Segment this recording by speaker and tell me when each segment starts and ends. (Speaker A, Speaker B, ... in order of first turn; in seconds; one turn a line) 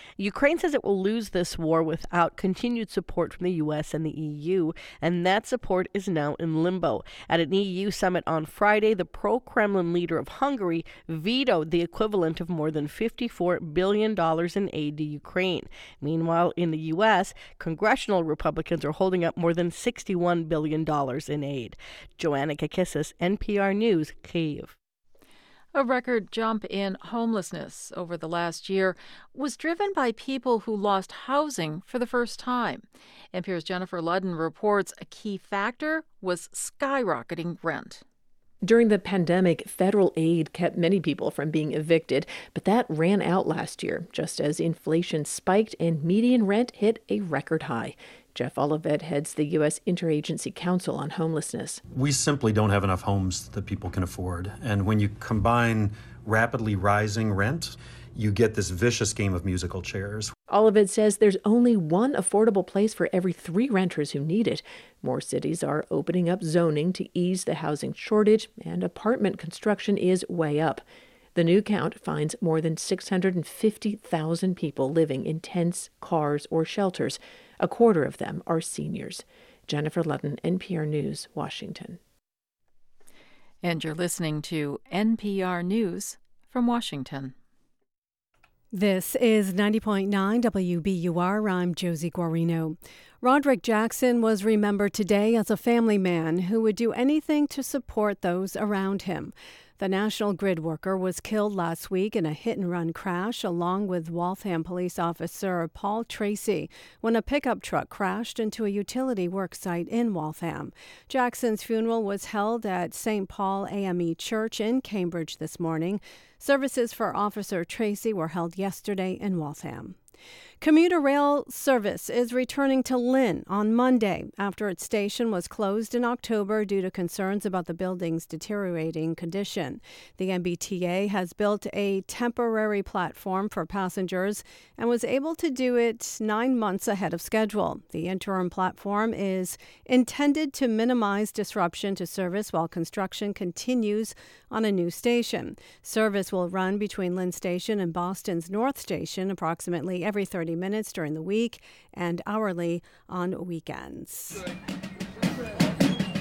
Speaker A: 0.2-24.7
Speaker B: 25.7-38.0
Speaker C: 38.6-51.8
Speaker D: 51.9-60.3
Speaker C: 60.5-82.0
Speaker B: 83.6-87.3
Speaker E: 88.7-120.0
Speaker E: 120.6-154.4